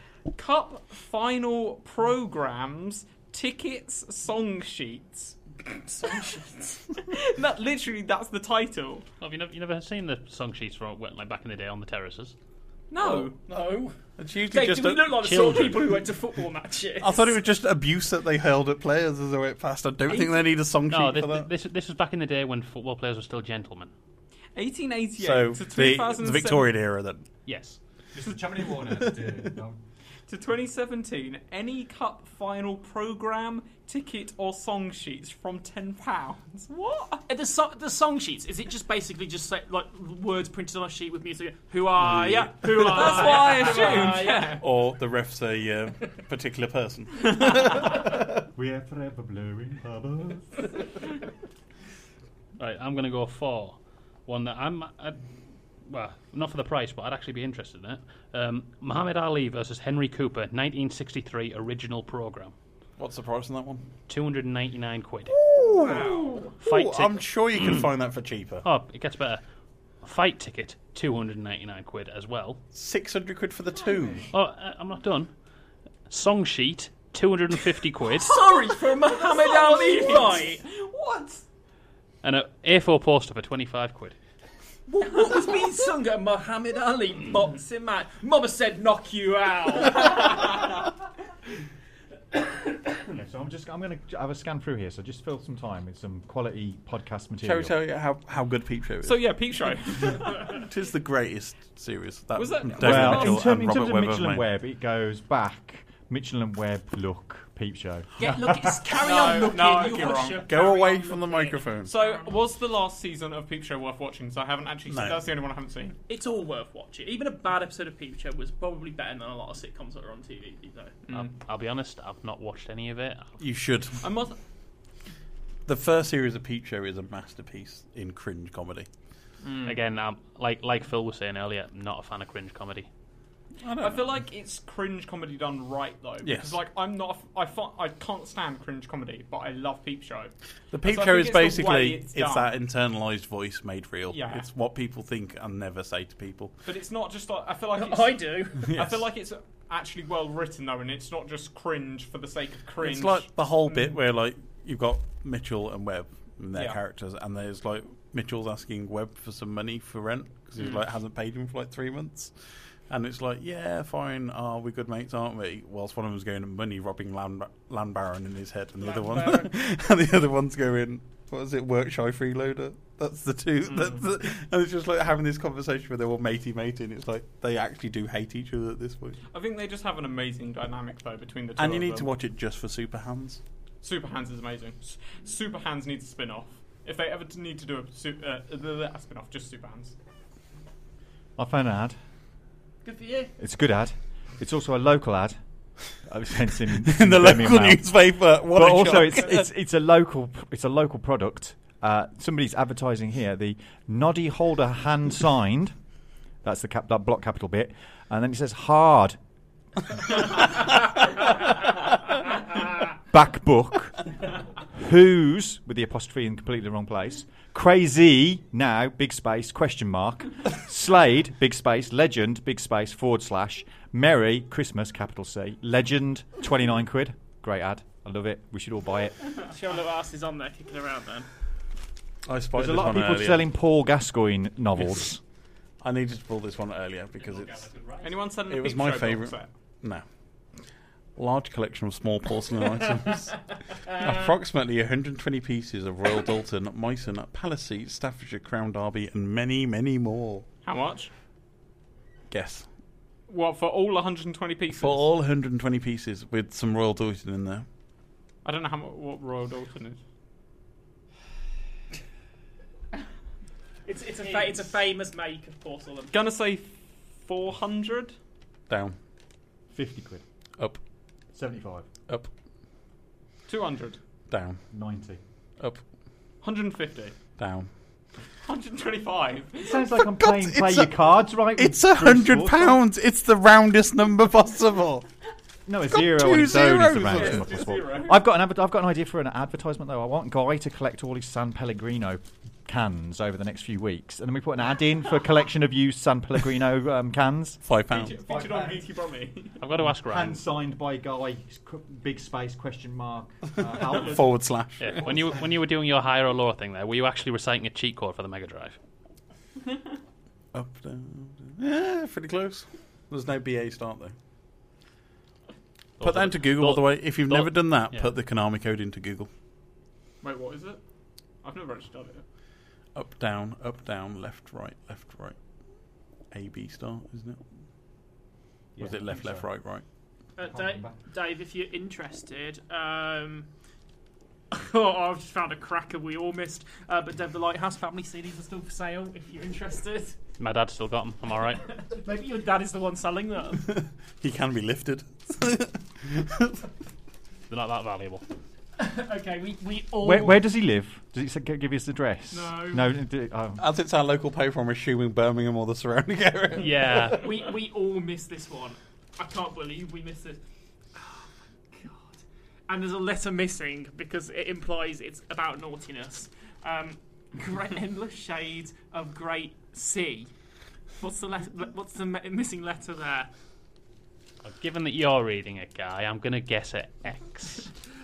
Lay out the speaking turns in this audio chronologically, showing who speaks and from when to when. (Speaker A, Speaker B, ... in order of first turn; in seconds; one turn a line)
Speaker A: 0.3-5.4
Speaker B: 5.8-6.9
Speaker A: 7.0-9.1
Speaker C: 9.2-12.3
Speaker A: 12.9-13.4
Speaker B: 13.0-13.9
Speaker D: 14.2-15.8
Speaker B: 14.5-17.4
Speaker C: 15.3-16.0
Speaker D: 17.0-21.5
Speaker C: 20.9-23.9
Speaker A: 24.6-26.8
Speaker D: 25.2-27.3
Speaker C: 27.4-27.8
Speaker E: 28.1-29.8
Speaker A: 30.3-37.2
Speaker B: 37.3-44.6
Speaker D: 42.0-48.0
Speaker A: 42.6-44.6
Speaker E: 48.5-50.7
Speaker C: 52.6-55.2
Speaker C: 55.8-62.5
Speaker D: 63.0-63.8
Speaker C: 64.1-65.3
Speaker D: 65.3-66.1
Speaker B: 65.7-66.5
Speaker A: 65.8-66.5
Speaker D: 66.6-68.6
Speaker C: 66.6-67.8
Speaker C: 68.6-69.4
Speaker C: 70.0-72.6
Speaker D: 72.7-74.3
Speaker C: 74.3-75.3
Speaker C: 76.1-78.5
Speaker B: 78.2-80.7
Speaker A: 79.0-81.4
Speaker C: 82.2-84.2
Speaker B: 84.9-90.6
Speaker E: 93.1-97.8
Speaker D: 97.4-99.3
Speaker A: 99.0-100.5
Speaker D: 100.1-104.4
Speaker A: 102.3-103.5
Speaker E: 102.8-108.8
Speaker B: 108.2-112.3
Speaker A: 108.9-110.6
Speaker D: 109.9-111.9
Speaker A: 111.8-116.0
Speaker D: 114.9-115.2
Speaker B: 116.1-120.9
Speaker A: 121.1-121.3
Speaker C: 121.1-123.4
Speaker D: 123.4-124.1
Speaker A: 124.0-124.4
Speaker D: 125.7-128.9
Speaker A: 129.4-129.8
Speaker C: 129.6-132.9
Speaker D: 133.6-134.2
Speaker A: 133.8-142.5
Speaker D: 136.2-136.6
Speaker D: 140.7-146.6
Speaker A: 144.1-144.5
Speaker A: 146.6-154.0
Speaker B: 147.7-148.7
Speaker D: 148.6-149.1
Speaker D: 152.8-162.3
Speaker A: 156.5-156.8
Speaker A: 160.6-160.8
Speaker D: 162.9-179.2
Speaker B: 168.8-169.5
Speaker A: 173.6-174.0
Speaker A: 179.3-182.1
Speaker D: 181.6-183.4
Speaker A: 183.8-189.9
Speaker E: 191.4-191.9
Speaker B: 192.8-193.3
Speaker E: 193.4-195.4
Speaker E: 195.9-197.9
Speaker D: 196.8-199.4
Speaker E: 198.5-205.7
Speaker E: 206.4-209.2
Speaker E: 213.1-214.0
Speaker E: 214.7-229.2
Speaker B: 229.4-231.3
Speaker D: 232.2-233.5
Speaker E: 232.6-235.2
Speaker D: 235.8-237.7
Speaker C: 237.4-238.1
Speaker A: 238.0-239.5
Speaker D: 238.3-240.1
Speaker D: 241.2-250.5
Speaker A: 250.6-251.1
Speaker D: 252.3-252.7
Speaker A: 253.3-255.1
Speaker D: 254.7-257.6
Speaker A: 258.4-260.0
Speaker B: 263.9-266.1
Speaker A: 264.2-264.7
Speaker A: 266.1-268.1
Speaker D: 268.7-269.0
Speaker E: 269.7-270.2
Speaker E: 271.3-271.9
Speaker A: 273.5-274.0
Speaker D: 274.3-274.6
Speaker E: 274.7-275.2
Speaker A: 276.4-277.2
Speaker D: 277.4-277.7
Speaker A: 278.4-279.9
Speaker E: 279.6-282.8
Speaker D: 280.2-280.9
Speaker D: 281.6-285.1
Speaker E: 285.7-297.6
Speaker D: 285.9-287.6
Speaker A: 287.0-288.3
Speaker D: 297.6-298.2
Speaker A: 297.9-299.6
Speaker E: 298.3-298.8
Speaker C: 299.6-300.4
Speaker E: 299.8-304.4
Speaker D: 303.8-305.1
Speaker C: 304.8-308.8
Speaker E: 305.0-305.5
Speaker D: 310.5-314.1
Speaker C: 316.0-318.1
Speaker D: 316.0-319.3
Speaker A: 320.2-320.8
Speaker A: 321.4-322.2
Speaker D: 322.9-325.4
Speaker D: 326.3-327.4
Speaker E: 328.8-329.5
Speaker D: 328.8-329.8
Speaker B: 330.4-333.5
Speaker E: 330.4-331.0
Speaker B: 334.5-340.2
Speaker C: 340.4-341.7
Speaker B: 341.8-343.7
Speaker D: 343.6-346.6
Speaker C: 347.5-348.3
Speaker B: 348.8-350.4
Speaker E: 350.0-353.6
Speaker B: 352.3-352.9
Speaker D: 353.6-357.2
Speaker C: 356.6-357.2
Speaker B: 357.1-360.4
Speaker B: 360.9-370.3
Speaker B: 371.0-373.3
Speaker C: 374.4-377.7